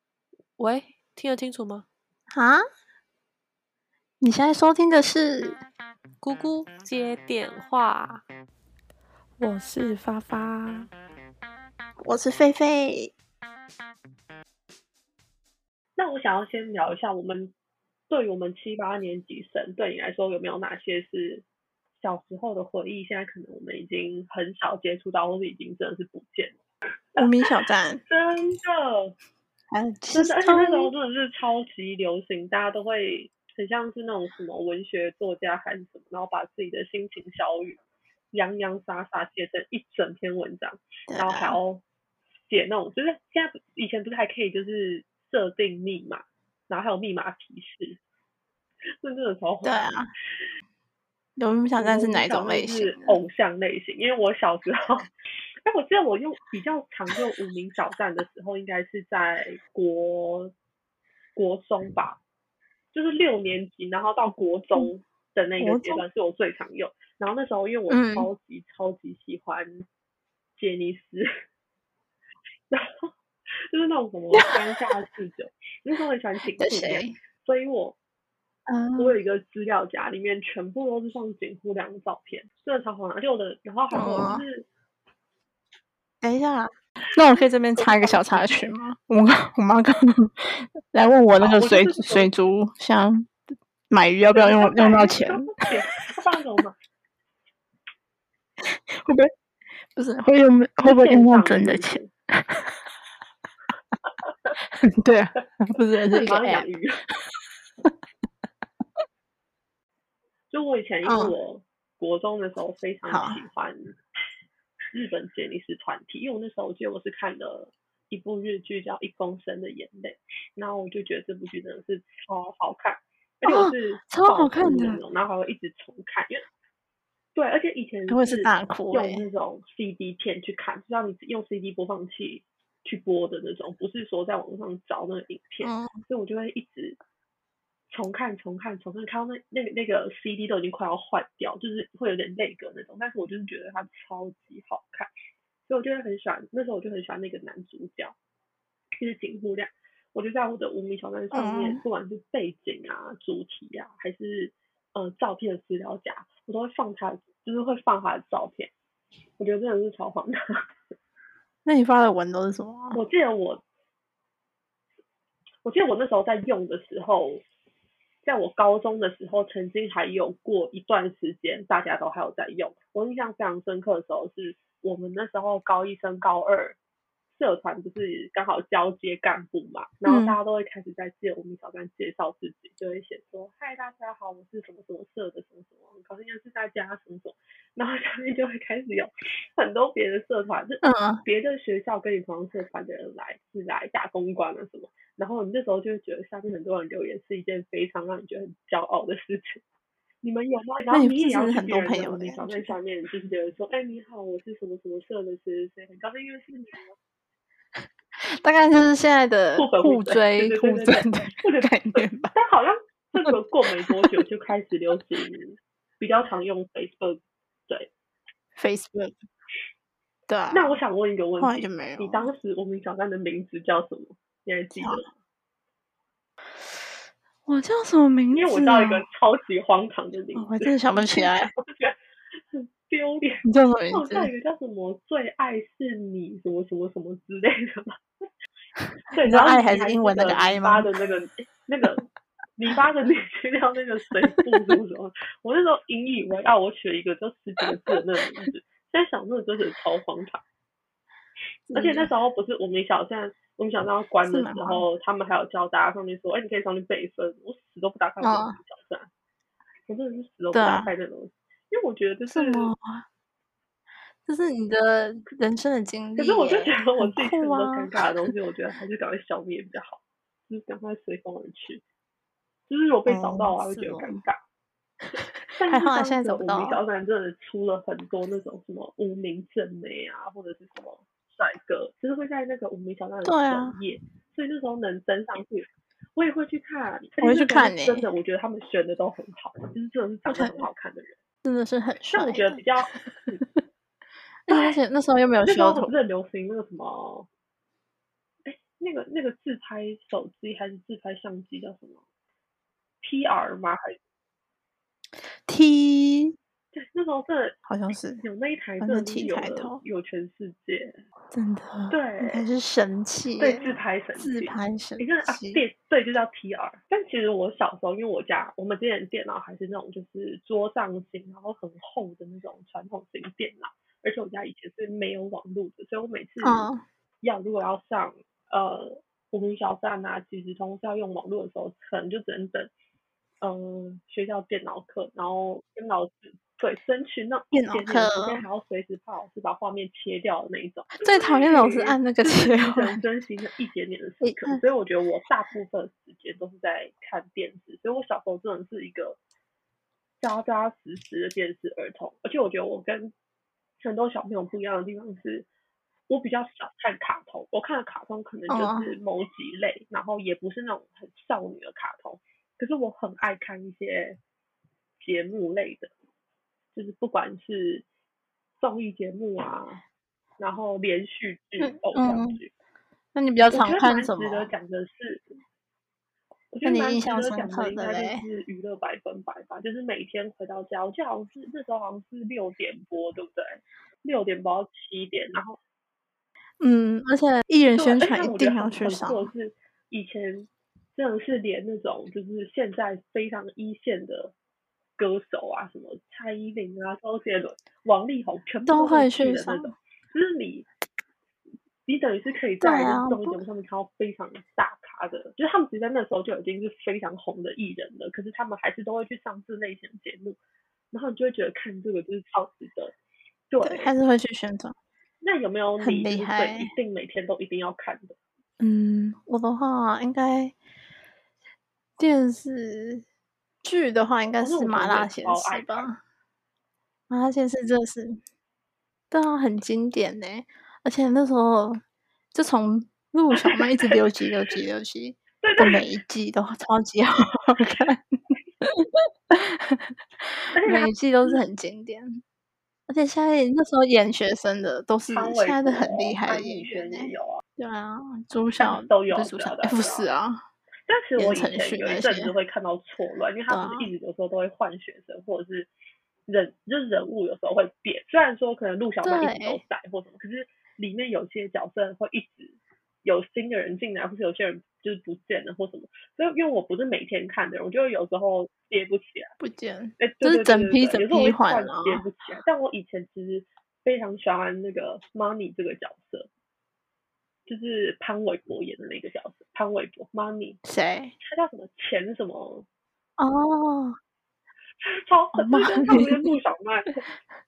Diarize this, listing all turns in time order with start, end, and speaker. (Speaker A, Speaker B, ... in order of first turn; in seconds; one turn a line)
Speaker A: 0.6-1.9
Speaker B: 2.3-2.6
Speaker B: 4.2-5.6
Speaker A: 6.2-8.2
Speaker A: 9.4-10.9
Speaker B: 12.0-13.1
Speaker C: 16.0-17.5
Speaker C: 18.1-21.4
Speaker C: 22.0-26.5
Speaker B: 27.2-28.0
Speaker C: 28.1-29.1
Speaker B: 29.7-30.9
Speaker C: 30.1-37.8
Speaker C: 38.3-41.8
Speaker B: 41.1-41.6
Speaker C: 42.5-48.0
Speaker C: 49.0-49.9
Speaker B: 49.6-50.1
Speaker B: 51.4-53.2
Speaker C: 51.8-55.1
Speaker C: 55.6-60.5
Speaker C: 61.4-62.2
Speaker C: 62.9-69.8
Speaker B: 65.6-66.0
Speaker B: 67.9-68.3
Speaker C: 70.6-71.3
Speaker C: 72.7-73.1
Speaker C: 73.7-78.0
Speaker B: 76.6-77.2
Speaker B: 78.7-79.2
Speaker C: 79.0-84.7
Speaker B: 83.9-84.4
Speaker B: 86.2-93.3
Speaker C: 87.3-88.6
Speaker C: 91.4-92.3
Speaker B: 93.9-95.6
Speaker C: 94.3-96.8
Speaker B: 98.6-99.3
Speaker B: 99.9-102.8
Speaker C: 100.8-102.1
Speaker B: 104.6-106.7
Speaker C: 106.1-107.0
Speaker C: 110.5-113.9
Speaker B: 111.0-111.3
Speaker B: 113.1-113.4
Speaker C: 114.9-126.4
Speaker B: 123.4-125.0
Speaker C: 127.3-137.0
Speaker B: 128.1-129.2
Speaker B: 135.6-135.9
Speaker C: 137.9-145.1
Speaker C: 145.7-148.1
Speaker C: 149.0-158.7
Speaker B: 151.3-151.8
Speaker C: 159.4-160.4
Speaker B: 161.6-163.0
Speaker C: 162.9-163.6
Speaker C: 165.6-167.4
Speaker C: 168.2-176.8
Speaker C: 177.3-199.6
Speaker B: 180.0-180.4
Speaker B: 190.8-191.2
Speaker C: 200.2-206.9
Speaker B: 200.9-202.7
Speaker B: 208.2-212.3
Speaker C: 209.6-217.9
Speaker B: 218.6-219.2
Speaker B: 220.3-220.8
Speaker C: 220.5-225.1
Speaker B: 221.4-222.3
Speaker B: 224.7-225.0
Speaker B: 226.6-226.9
Speaker B: 227.4-229.0
Speaker C: 228.3-231.9
Speaker B: 230.3-231.5
Speaker C: 232.5-238.0
Speaker B: 233.4-234.3
Speaker C: 239.1-242.0
Speaker B: 239.2-240.9
Speaker C: 242.6-250.4
Speaker B: 251.7-252.1
Speaker C: 251.7-259.1
Speaker B: 254.2-254.8
Speaker B: 258.2-258.6
Speaker C: 259.9-262.7
Speaker B: 260.5-260.9
Speaker B: 262.3-263.0
Speaker B: 264.2-267.9
Speaker C: 266.1-271.8
Speaker C: 272.7-274.4
Speaker B: 273.1-274.2
Speaker B: 275.1-276.8
Speaker C: 275.6-291.1
Speaker B: 283.2-283.7
Speaker B: 287.2-288.1
Speaker B: 290.3-290.6
Speaker B: 291.4-292.6
Speaker C: 292.1-293.4
Speaker B: 294.5-295.9
Speaker C: 295.4-297.3
Speaker C: 298.4-302.0
Speaker C: 303.0-303.9
Speaker B: 305.3-306.3
Speaker C: 306.7-307.6
Speaker B: 307.7-308.2
Speaker C: 308.2-311.0
Speaker B: 308.8-309.8
Speaker B: 311.3-315.6
Speaker C: 311.9-312.4
Speaker C: 313.4-326.7
Speaker B: 326.4-326.8
Speaker C: 327.2-332.7
Speaker C: 333.4-349.2
Speaker B: 337.5-338.4
Speaker B: 341.0-343.0
Speaker B: 344.2-344.6
Speaker C: 350.2-353.1
Speaker C: 353.8-355.5
Speaker C: 356.1-364.2
Speaker B: 358.5-358.9
Speaker C: 365.0-365.9
Speaker C: 366.7-367.8
Speaker C: 368.6-369.8
Speaker C: 370.4-372.5
Speaker B: 371.6-372.4
Speaker B: 373.1-374.5
Speaker C: 373.4-375.3
Speaker C: 376.5-385.6
Speaker B: 376.6-378.2
Speaker B: 386.6-389.3
Speaker C: 387.7-394.3
Speaker C: 395.0-400.7
Speaker B: 398.7-399.7
Speaker C: 401.9-410.4
Speaker B: 402.6-403.4
Speaker C: 410.9-412.9
Speaker C: 413.5-413.9
Speaker B: 413.6-414.8
Speaker C: 415.2-418.1
Speaker B: 415.8-416.7
Speaker B: 418.6-420.5
Speaker B: 422.0-423.0
Speaker B: 423.6-426.0
Speaker C: 424.4-425.9
Speaker B: 427.1-428.2
Speaker B: 429.1-431.8
Speaker B: 432.3-442.2
Speaker C: 433.4-434.0
Speaker C: 435.4-435.8
Speaker C: 440.6-441.4
Speaker B: 442.9-450.4
Speaker C: 445.1-447.4
Speaker C: 448.6-450.1
Speaker C: 450.9-455.7
Speaker B: 451.2-452.3
Speaker B: 453.5-453.9
Speaker C: 456.3-469.3
Speaker B: 459.0-459.6
Speaker B: 469.4-472.1
Speaker C: 470.0-476.3
Speaker C: 477.5-480.6
Speaker B: 480.6-481.1
Speaker C: 481.2-482.6
Speaker B: 483.2-484.0
Speaker C: 484.8-487.0
Speaker B: 485.3-486.3